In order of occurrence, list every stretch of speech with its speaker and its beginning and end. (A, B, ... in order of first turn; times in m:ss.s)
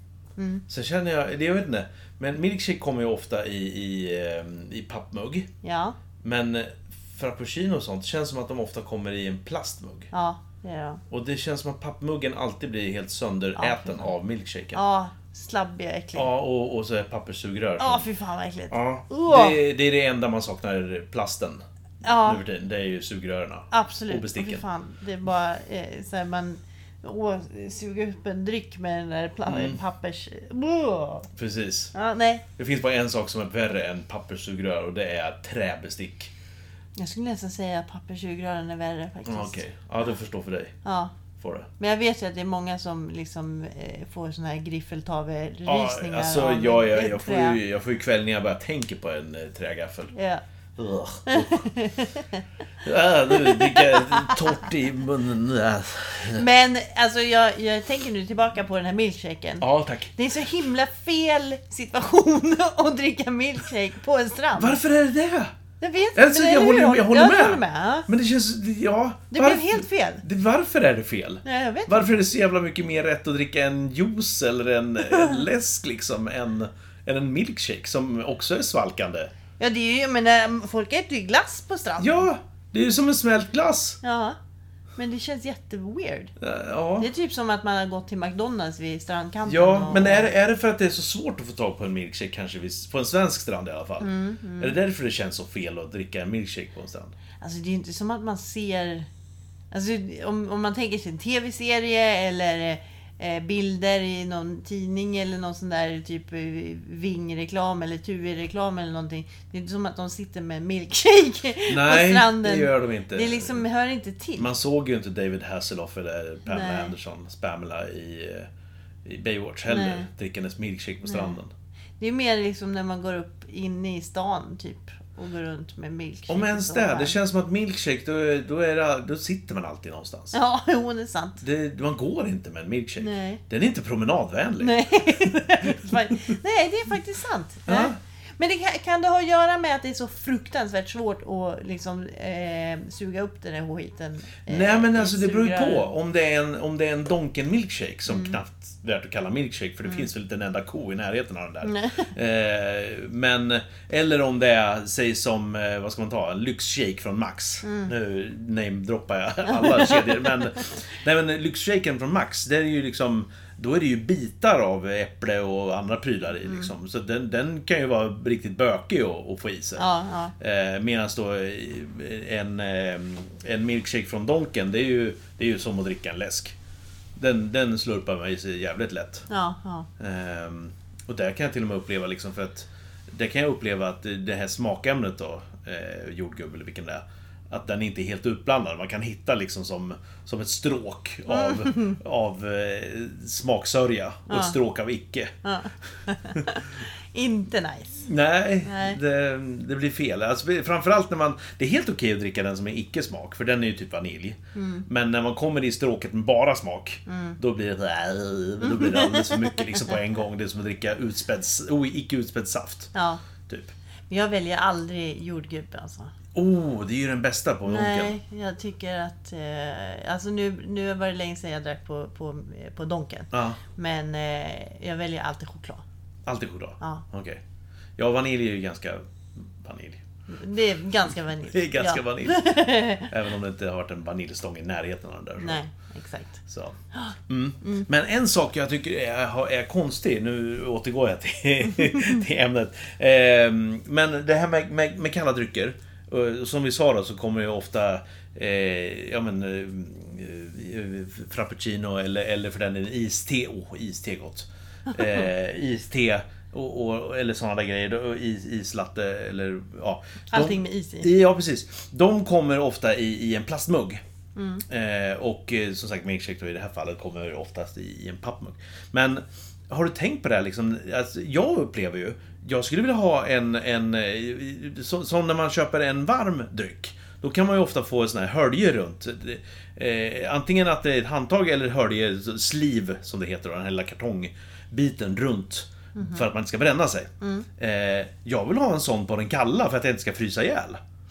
0:00.4-0:00.6 A
0:00.7-0:05.5 B
0:05.6-0:06.0 A
0:06.2-0:10.1 B
0:10.1-0:11.0 A
0:11.1-0:14.8 B
0:13.6-0:14.1 A
0:14.7-0:16.3 A
0:16.2-0:18.1 B
0:17.8-0:19.6 A
0:18.7-0:24.6 B
0:22.0-0:22.4 A
0:23.7-0:31.3 A
0:29.5-0:29.8 B
0:31.4-0:31.9 B
0:31.9-0:32.4 A
0:32.6-0:36.3 B
0:37.0-0:39.6 A
0:39.3-0:40.8 B
0:40.8-0:41.2 A
0:41.4-0:41.7 B
0:41.8-0:47.6 A
0:45.7-0:50.1 B
0:50.1-0:50.4 A
0:50.8-0:51.7 B
0:51.3-0:52.4 A
0:52.8-0:56.4 B
0:53.3-0:54.6 A
0:56.4-1:04.8 A
0:59.6-1:00.1 B
1:04.6-1:05.6 B
1:05.8-1:08.1 A
1:06.2-1:19.3 B
1:09.3-1:10.2 A
1:11.4-1:12.2 A
1:15.0-1:15.4 A
1:19.6-1:22.3 A
1:22.0-1:24.0 B
1:24.0-1:24.4 A
1:25.0-1:26.3 A
1:26.4-1:27.1 B
1:27.0-1:30.3 A
1:29.4-1:37.2 B
1:34.0-1:34.8 A
1:37.4-1:39.1 A
1:39.7-1:54.5 A
1:51.7-1:53.6 B
1:54.4-1:58.5 B
1:56.5-1:57.0 A
1:59.0-2:01.5 B
1:59.7-2:00.1 A
2:01.1-2:01.4 A
2:02.0-2:07.2 A
2:06.3-2:10.4 B
2:10.3-2:11.4 A
2:11.4-2:16.3 B
2:13.0-2:13.4 A
2:14.6-2:25.9 A
2:17.7-2:18.0 B
2:24.5-2:49.9 B
2:28.1-2:28.4 A
2:31.6-2:32.1 A
2:37.6-2:37.9 A
2:39.5-2:40.4 A
2:49.8-2:50.4 A
2:50.4-2:56.6 B
2:57.2-2:59.3 B
2:59.3-2:59.9 A
3:00.0-3:15.4 B
3:11.3-3:12.0 A
3:14.3-3:14.6 A
3:15.4-3:18.0 A
3:16.3-3:16.6 B
3:18.0-3:32.9 B
3:18.6-3:19.0 A
3:24.6-3:24.9 A
3:27.1-3:27.4 A
3:28.6-3:30.0 A
3:32.9-3:33.2 A
3:33.5-3:33.7 B
3:34.1-3:36.1 A
3:36.4-3:38.2 B
3:37.7-3:45.8 A
3:43.3-3:43.6 B
3:46.3-3:47.4 B
3:48.0-3:50.0 B
3:50.3-3:53.1 A
3:51.4-3:55.6 B
3:55.4-3:56.4 A
3:56.5-4:24.0 B
3:56.9-3:57.9 A
4:20.3-4:21.1 A
4:24.4-4:24.6 A
4:24.7-4:50.8 B
4:46.0-4:46.3 A
4:47.2-4:47.5 A